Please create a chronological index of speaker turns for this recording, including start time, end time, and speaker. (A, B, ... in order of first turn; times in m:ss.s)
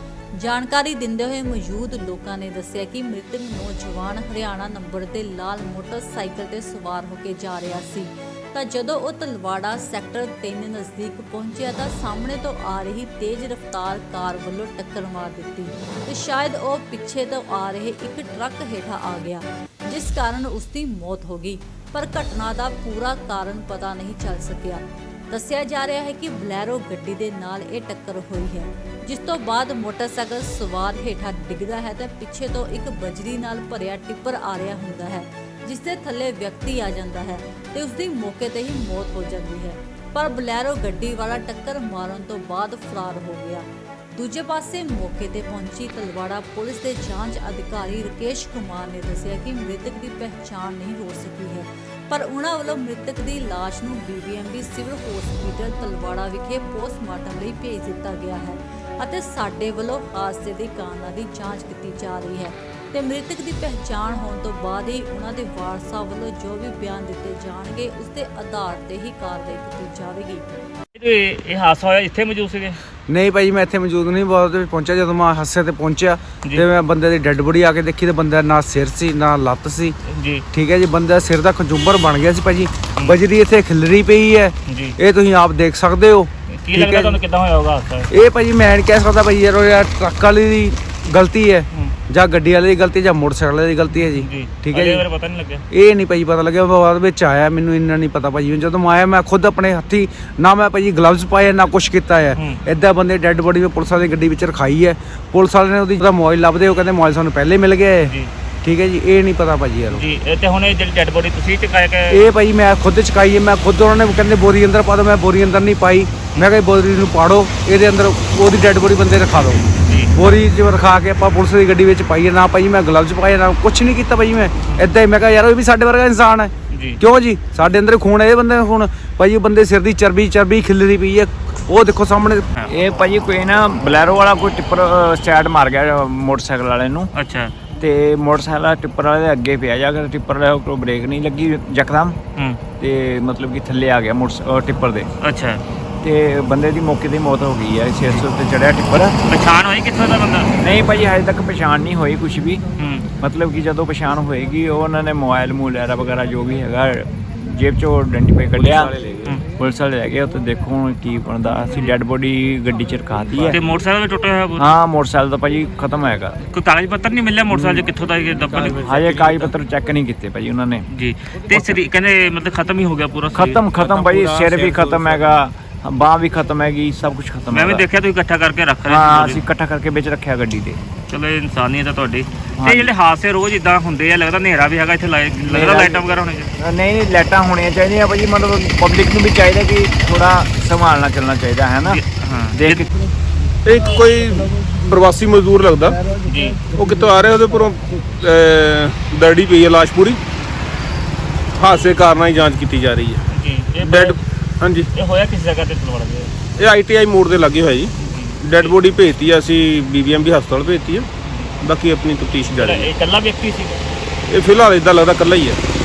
0:00.4-1:10.4 A
1:10.9-1:12.8 B
1:13.1-1:20.0 C
1:20.1-1:20.4 B
1:20.5-1:27.2 C
1:24.7-1:25.0 B
1:26.5-1:28.1 B
1:28.1-1:35.0 C
1:33.9-1:35.6 B
1:35.7-1:50.0 C
1:49.9-1:52.3 B
1:52.1-2:12.5 C
1:59.8-2:00.1 B
2:06.7-2:07.0 B
2:12.7-2:17.1 D
2:17.1-2:17.5 B
2:17.8-2:22.2 D
2:22.4-2:22.6 B
2:22.8-2:25.1 D
2:25.2-2:25.6 B
2:26.0-2:29.2 D
2:29.3-2:30.6 B
2:30.6-2:32.6 D
2:32.8-2:33.1 B
2:33.2-2:43.6 D
2:38.7-2:39.4 B
2:43.4-2:44.7 B
2:44.6-2:46.4 D
2:46.5-2:49.5 B
2:47.5-2:47.9 D
2:48.7-2:50.8 D
2:50.9-2:54.8 B
2:53.3-2:57.8 D
2:57.5-2:59.4 B
2:58.8-3:00.8 D
3:01.1-3:06.5 B
3:02.6-3:02.9 D
3:05.3-3:12.0 D
3:11.8-3:12.9 B
3:12.5-3:12.9 D
3:13.6-3:16.0 E
3:16.2-3:16.7 B
3:16.7-3:20.2 E
3:21.5-3:23.2 E
3:23.3-3:24.2 B
3:23.8-3:24.9 E
3:24.9-3:26.3 B
3:26.6-3:31.1 E
3:28.0-3:28.7 B
3:31.2-3:31.5 B
3:31.6-3:32.9 E
3:32.6-3:33.8 B
3:34.3-3:35.6 E